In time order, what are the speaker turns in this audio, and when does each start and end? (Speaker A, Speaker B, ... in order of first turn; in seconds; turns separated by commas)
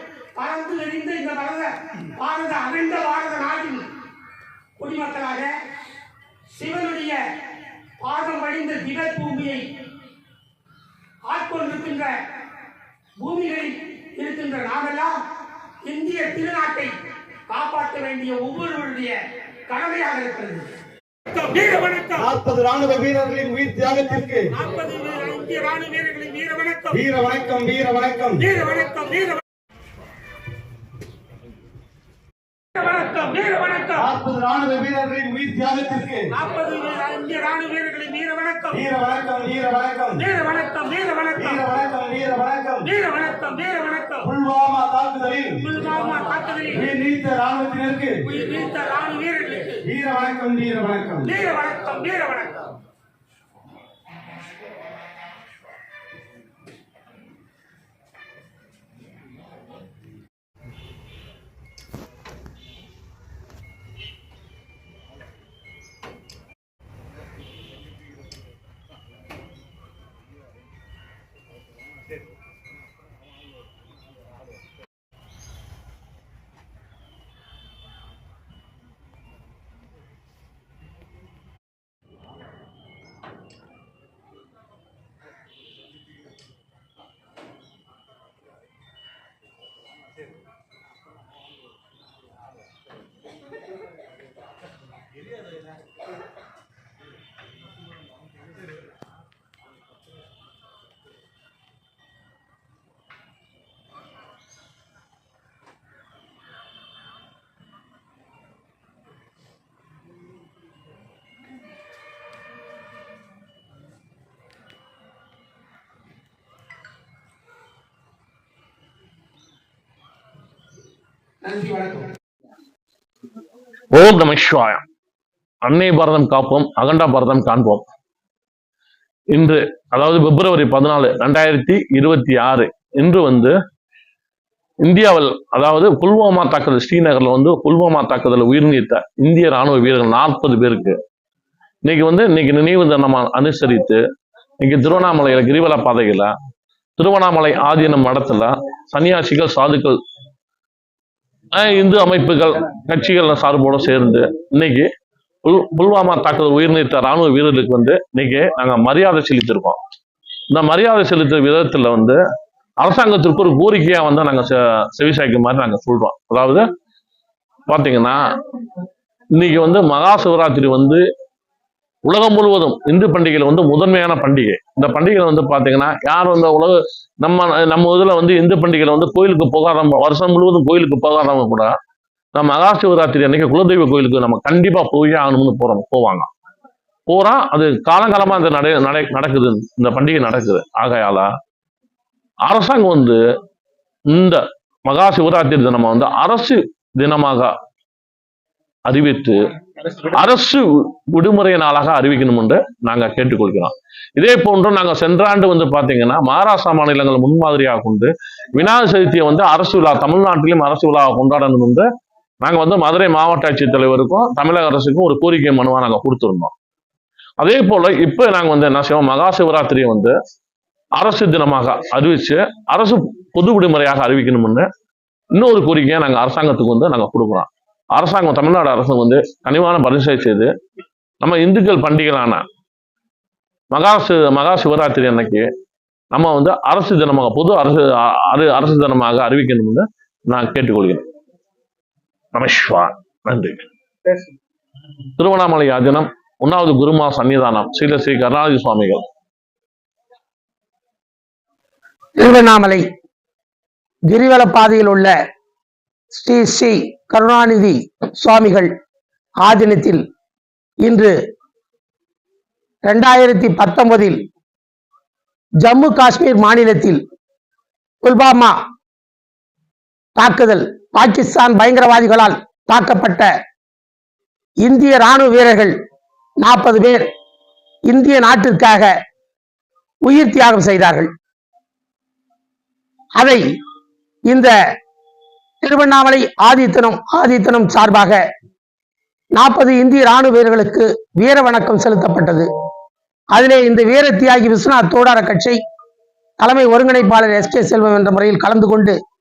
Speaker A: 0.3-3.9, Speaker A: 4.8-5.5, Speaker A: 6.5-7.2, Speaker A: 8.0-9.7, Speaker A: 11.2-12.1, Speaker A: 13.2-15.1, Speaker A: 15.8-16.9, Speaker A: 17.5-20.7, Speaker A: 21.3-22.1, Speaker B: 22.1-24.5, Speaker A: 24.6-26.9, Speaker B: 26.9-28.7, Speaker A: 28.6-29.4, Speaker A: 32.7-33.9, Speaker B: 33.9-36.3, Speaker A: 36.3-38.7, Speaker B: 38.7-40.4, Speaker A: 40.4-41.4, Speaker B: 41.3-43.0, Speaker A: 42.9-44.2, Speaker B: 44.2-45.8, Speaker A: 45.6-46.7, Speaker B: 46.7-48.4, Speaker A: 48.3-49.8, Speaker B: 49.8-51.4, Speaker A: 51.4-52.6, Speaker A: 121.4-122.1, Speaker C: 123.9-124.8, Speaker C: 125.6-127.8, Speaker C: 129.3-133.5, Speaker C: 134.8-140.9, Speaker C: 141.8-144.0, Speaker C: 144.6-146.3, Speaker C: 147.0-150.0, Speaker C: 151.5-154.9, Speaker C: 155.4-159.8, Speaker C: 160.5-162.2, Speaker C: 162.8-166.6, Speaker C: 167.7-168.2, Speaker C: 169.3-171.0, Speaker C: 172.0-181.7, Speaker C: 182.3-186.3, Speaker C: 187.1-191.3, Speaker C: 192.4-193.2, Speaker C: 194.1-197.5, Speaker C: 198.8-199.4, Speaker C: 199.9-211.9, Speaker C: 212.4-216.5, Speaker C: 217.4-220.1, Speaker C: 220.9-224.7, Speaker C: 225.3-230.5, Speaker C: 231.2-232.4, Speaker C: 233.7-235.4, Speaker C: 236.1-241.0, Speaker C: 242.3-244.2, Speaker C: 245.2-249.0, Speaker A: 252.2-252.8, Speaker A: 254.1-255.1, Speaker A: 256.1-258.7, Speaker A: 259.4-260.0, Speaker A: 260.8-261.1, Speaker A: 262.9-264.2, Speaker A: 265.6-267.0, Speaker A: 268.0-268.6, Speaker A: 270.2-273.3, Speaker A: 274.6-275.8, Speaker A: 276.4-277.1, Speaker A: 277.9-278.9, Speaker A: 280.1-281.1, Speaker A: 283.2-283.4, Speaker A: 285.6-288.2, Speaker A: 289.4-292.5, Speaker A: 293.3-295.6, Speaker A: 296.4-299.0